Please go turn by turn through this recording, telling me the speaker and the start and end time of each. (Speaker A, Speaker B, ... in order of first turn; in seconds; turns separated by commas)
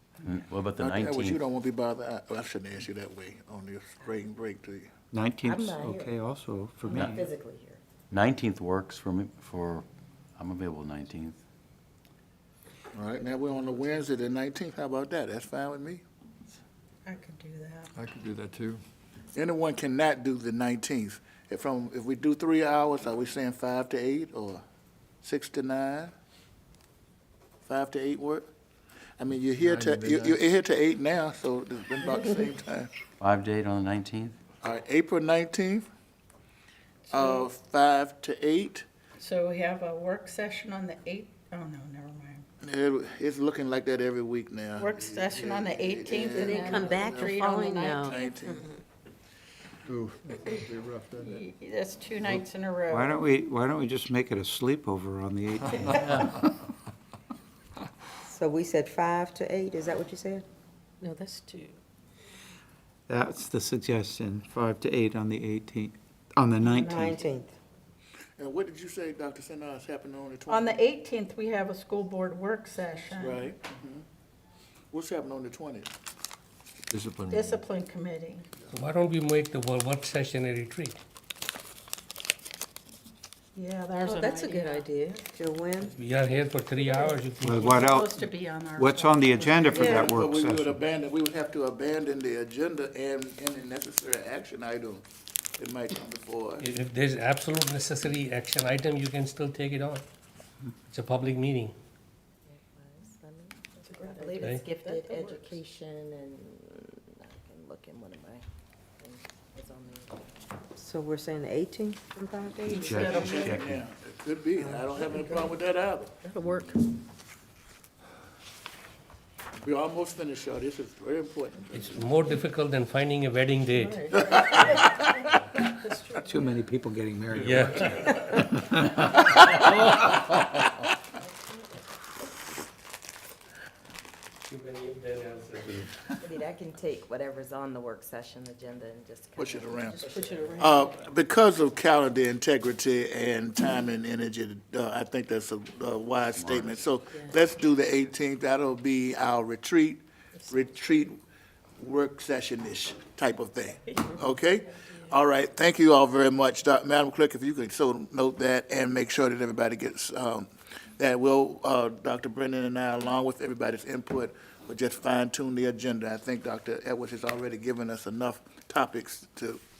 Speaker A: 0.2-1.4, Speaker B: 0.8-4.9, Speaker C: 5.1-7.2, Speaker D: 5.4-6.2, Speaker D: 6.9-7.8, Speaker A: 6.9-7.2, Speaker A: 8.1-9.8, Speaker A: 10.4-11.4, Speaker B: 12.9-16.0, Speaker E: 17.0-17.9, Speaker F: 17.9-18.8, Speaker B: 19.3-24.6, Speaker B: 25.2-26.1, Speaker B: 27.6-28.5, Speaker B: 29.2-32.9, Speaker F: 29.6-30.5, Speaker A: 33.2-34.4, Speaker B: 34.6-35.9, Speaker E: 37.1-37.5, Speaker B: 37.1-38.9, Speaker E: 39.2-42.4, Speaker B: 42.6-48.7, Speaker E: 44.8-48.3, Speaker G: 46.3-48.7, Speaker F: 49.9-51.4, Speaker E: 51.2-53.2, Speaker C: 52.3-56.2, Speaker H: 58.2-60.4, Speaker G: 61.0-61.8, Speaker C: 63.1-67.2, Speaker H: 66.7-67.5, Speaker B: 68.4-70.8, Speaker E: 70.5-73.5, Speaker B: 73.0-74.0, Speaker B: 74.9-75.9, Speaker F: 76.9-77.6, Speaker E: 77.3-78.5, Speaker I: 78.7-81.0, Speaker E: 83.5-84.9, Speaker G: 84.0-85.2, Speaker H: 85.3-85.9, Speaker I: 85.9-87.7, Speaker E: 86.8-90.1, Speaker C: 87.4-90.8, Speaker B: 89.6-95.0, Speaker B: 95.6-96.7, Speaker I: 96.6-100.0, Speaker I: 100.9-101.7, Speaker D: 102.5-108.4, Speaker E: 103.8-105.6, Speaker D: 109.0-110.5, Speaker H: 110.8-113.3, Speaker E: 112.7-113.6, Speaker C: 112.7-113.8, Speaker B: 112.9-116.1, Speaker H: 114.6-115.0, Speaker G: 116.2-116.9, Speaker B: 119.6-121.7, Speaker I: 121.7-124.9, Speaker E: 123.9-124.5, Speaker E: 125.8-126.2, Speaker C: 126.2-129.0, Speaker F: 127.3-128.1, Speaker I: 127.3-128.2, Speaker I: 134.5-135.9, Speaker D: 136.2-140.6, Speaker B: 139.4-151.2, Speaker E: 140.1-140.8, Speaker A: 146.2-146.9, Speaker G: 147.1-147.4, Speaker G: 150.4-150.7, Speaker B: 151.8-169.6